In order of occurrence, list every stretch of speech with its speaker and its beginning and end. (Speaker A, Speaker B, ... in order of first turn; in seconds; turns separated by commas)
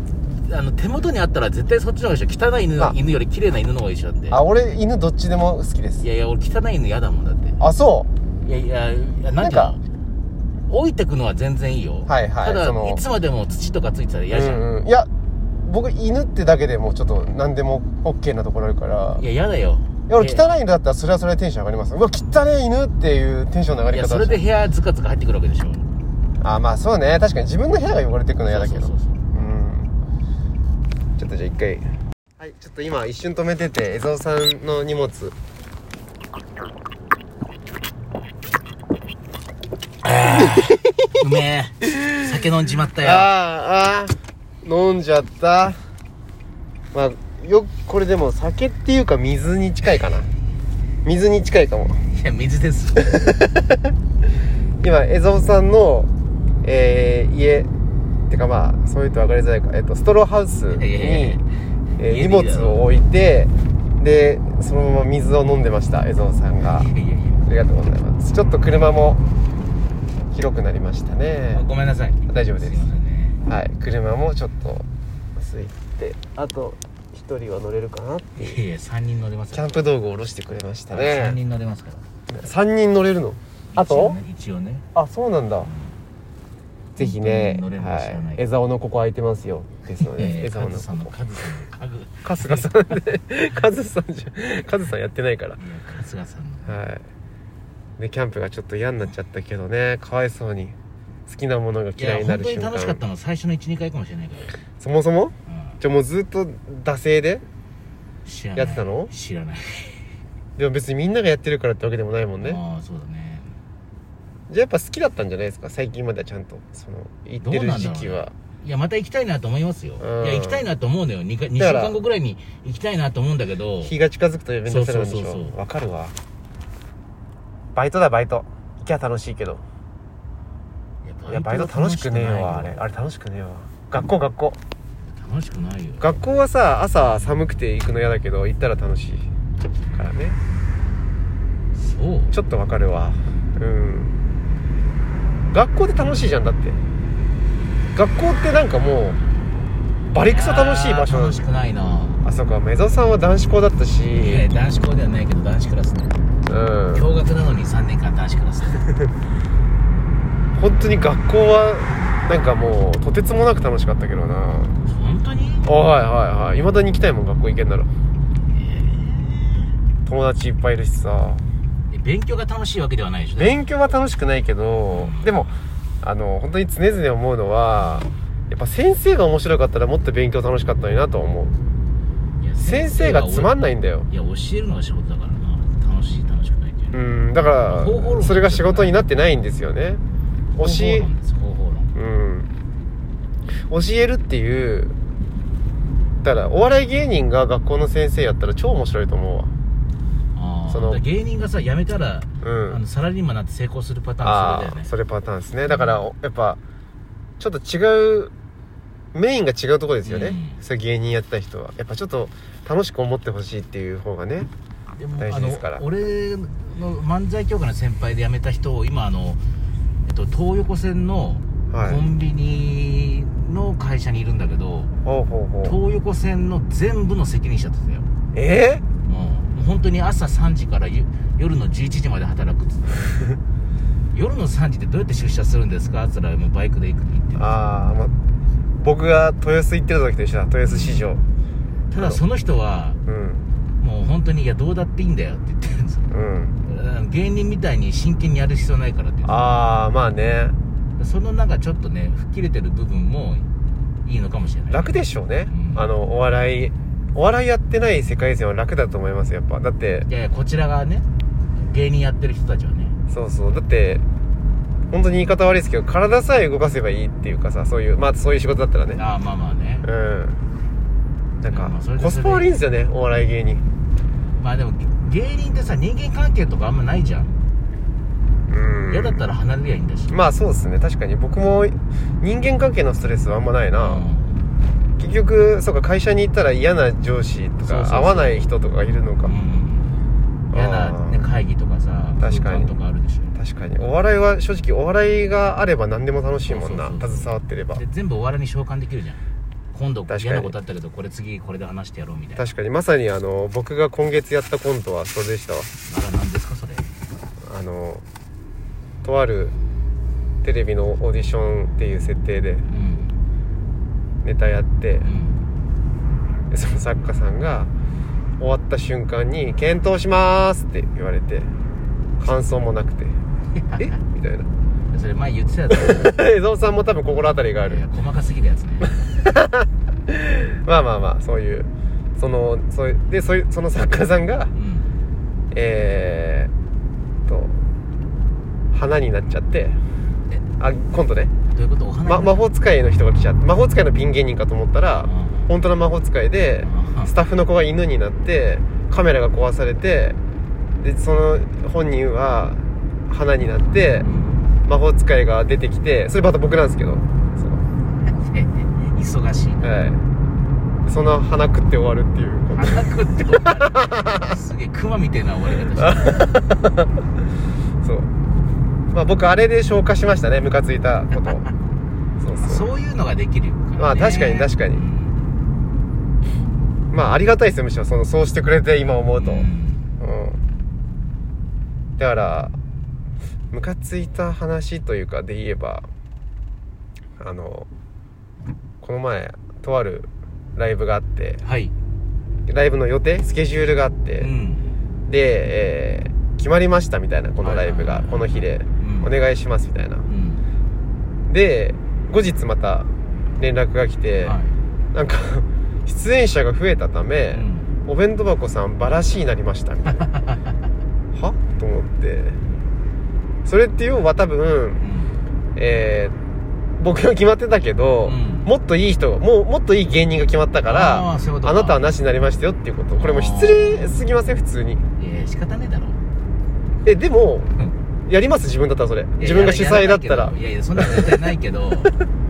Speaker A: 0.4-4.4, Speaker B: 4.3-6.0, Speaker A: 6.0-7.6, Speaker B: 7.6-8.1, Speaker A: 8.4-9.8, Speaker B: 9.4-9.8, Speaker A: 10.7-14.6, Speaker B: 12.1-13.0, Speaker B: 14.3-15.1, Speaker B: 15.6-19.2, Speaker A: 19.1-20.5, Speaker B: 20.1-24.4, Speaker A: 23.9-25.9, Speaker B: 26.4-29.9, Speaker A: 28.5-29.2, Speaker B: 31.2-35.3, Speaker A: 40.0-43.3, Speaker B: 43.0-45.8, Speaker B: 46.9-50.3, Speaker B: 51.0-52.0, Speaker A: 52.1-53.1, Speaker B: 53.0-53.8, Speaker B: 54.8-56.1, Speaker B: 56.6-57.7, Speaker B: 58.3-61.4, Speaker A: 60.6-61.5, Speaker A: 62.0-62.8, Speaker B: 62.0-66.9, Speaker A: 66.7-67.5, Speaker B: 67.5-69.2, Speaker B: 70.3-71.6, Speaker A: 71.5-73.4, Speaker B: 72.3-72.8, Speaker B: 73.5-74.8, Speaker B: 75.4-78.6, Speaker A: 78.3-79.8, Speaker B: 79.5-81.4, Speaker A: 80.9-82.0, Speaker B: 82.3-84.2, Speaker A: 83.7-84.8, Speaker B: 84.9-85.7, Speaker A: 85.6-85.9, Speaker A: 87.0-88.4, Speaker B: 87.0-91.1, Speaker A: 90.0-92.7, Speaker B: 92.2-95.6, Speaker A: 95.6-96.8, Speaker B: 96.6-97.0, Speaker B: 98.0-100.7, Speaker B: 101.3-103.0, Speaker A: 102.0-104.6, Speaker B: 104.8-107.4, Speaker A: 105.5-105.8, Speaker A: 108.2-110.0, Speaker B: 108.5-109.1, Speaker B: 110.6-112.6, Speaker A: 112.4-113.5, Speaker B: 114.5-118.3, Speaker A: 117.4-123.9, Speaker B: 120.0-120.6, Speaker B: 121.6-122.0, Speaker B: 123.8-126.1, Speaker A: 124.7-125.6, Speaker B: 127.7-129.6, Speaker A: 131.0-132.8, Speaker B: 131.3-134.6, Speaker A: 135.0-136.3, Speaker B: 136.0-139.3, Speaker B: 139.9-140.4, Speaker A: 141.7-142.3, Speaker B: 142.3-144.1, Speaker B: 145.5-146.8, Speaker B: 147.9-149.2, Speaker B: 150.1-151.4, Speaker A: 150.2-152.2, Speaker B: 152.2-154.5, Speaker A: 154.2-156.2, Speaker B: 156.4-157.1, Speaker A: 156.9-158.8, Speaker B: 160.6-164.8, Speaker A: 164.9-165.7, Speaker B: 165.6-167.9, Speaker A: 168.5-169.7, Speaker B: 170.1-171.4, Speaker A: 171.9-173.6, Speaker B: 173.3-181.5, Speaker A: 174.9-175.7, Speaker A: 177.8-178.1, Speaker A: 182.4-187.0, Speaker B: 182.6-184.1, Speaker B: 186.9-190.0, Speaker A: 187.6-189.1, Speaker B: 190.5-191.1, Speaker A: 190.6-191.9, Speaker B: 191.9-192.5, Speaker B: 193.7-194.9, Speaker B: 196.2-199.5, Speaker A: 200.3-204.9, Speaker B: 200.7-201.0, Speaker B: 202.4-202.8, Speaker B: 204.2-206.6, Speaker A: 205.7-206.1, Speaker B: 207.4-208.3, Speaker B: 209.1-214.5, Speaker A: 210.0-210.6, Speaker A: 214.9-219.4, Speaker B: 215.2-215.8, Speaker A: 220.1-224.9, Speaker B: 221.7-222.1, Speaker B: 225.0-225.8, Speaker A: 225.6-228.1, Speaker B: 228.3-228.8, Speaker A: 229.1-233.2, Speaker A: 234.1-237.7, Speaker B: 237.3-238.1, Speaker B: 238.8-241.2, Speaker A: 240.6-241.1, Speaker A: 241.9-243.0, Speaker B: 241.9-242.2, Speaker B: 243.1-243.4, Speaker A: 243.8-246.1, Speaker B: 246.1-246.5, Speaker A: 246.7-249.5, Speaker B: 249.2-250.5, Speaker A: 251.0-253.5, Speaker A: 254.0-255.9, Speaker B: 254.7-260.1, Speaker A: 260.1-261.1, Speaker A: 261.6-262.9, Speaker B: 263.1-264.0, Speaker B: 264.9-269.0, Speaker A: 268.9-269.9, Speaker B: 269.8-270.4, Speaker B: 271.4-273.6, Speaker A: 271.5-272.5, Speaker A: 274.4-277.4, Speaker B: 278.5-279.2, Speaker A: 278.9-280.2, Speaker B: 280.1-284.1, Speaker A: 283.8-284.4, Speaker B: 285.0-289.3, Speaker A: 287.6-288.5, Speaker A: 289.2-290.0, Speaker B: 290.5-291.3, Speaker A: 290.5-293.3, Speaker B: 292.2-292.8, Speaker B: 293.3-297.8, Speaker A: 296.5-299.2, Speaker A: 299.7-302.5, Speaker B: 300.1-300.5, Speaker B: 302.4-305.7, Speaker A: 305.9-306.9, Speaker B: 307.4-308.0, Speaker B: 309.0-309.5, Speaker B: 310.4-312.6, Speaker A: 312.7-313.2, Speaker B: 314.2-315.1, Speaker A: 315.0-315.4, Speaker B: 316.5-317.7, Speaker B: 318.4-321.5, Speaker B: 322.2-323.1, Speaker A: 323.6-324.0, Speaker B: 323.8-324.5, Speaker A: 324.9-326.2, Speaker B: 325.7-327.8, Speaker A: 327.6-329.0, Speaker B: 329.1-334.5, Speaker A: 334.5-334.9, Speaker B: 335.5-336.5, Speaker B: 337.3-337.6, Speaker B: 338.7-339.8, Speaker B: 340.6-341.3, Speaker A: 341.5-342.4, Speaker B: 342.0-350.2, Speaker A: 345.0-345.5, Speaker A: 346.6-347.1, Speaker B: 350.8-354.1, Speaker A: 354.0-354.5, Speaker B: 354.6-357.6, Speaker A: 358.0-359.7, Speaker B: 359.6-360.0, Speaker B: 360.8-364.4, Speaker A: 362.6-366.3, Speaker B: 365.8-366.9, Speaker B: 367.8-368.1, Speaker B: 368.9-371.5, Speaker B: 372.2-372.7, Speaker A: 372.4-375.2, Speaker B: 373.8-374.8, Speaker B: 376.9-380.4, Speaker A: 379.1-379.9, Speaker B: 382.0-382.5, Speaker B: 383.5-385.9, Speaker B: 387.2-387.7, Speaker B: 388.8-391.4, Speaker A: 391.4-391.7, Speaker B: 392.5-394.3, Speaker A: 394.2-394.7, Speaker B: 395.1-400.1, Speaker A: 397.4-399.1, Speaker A: 400.1-400.4, Speaker B: 401.3-404.4, Speaker A: 404.2-404.6, Speaker B: 404.9-410.1, Speaker A: 407.3-407.7, Speaker A: 410.0-410.4, Speaker B: 411.1-412.4, Speaker B: 413.4-414.8, Speaker A: 414.8-415.2, Speaker B: 415.6-416.1, Speaker B: 416.8-424.8, Speaker A: 418.0-418.5, Speaker A: 420.6-421.9, Speaker A: 423.0-424.1, Speaker A: 425.0-426.0, Speaker B: 426.8-427.5, Speaker B: 428.1-431.3, Speaker A: 429.2-432.0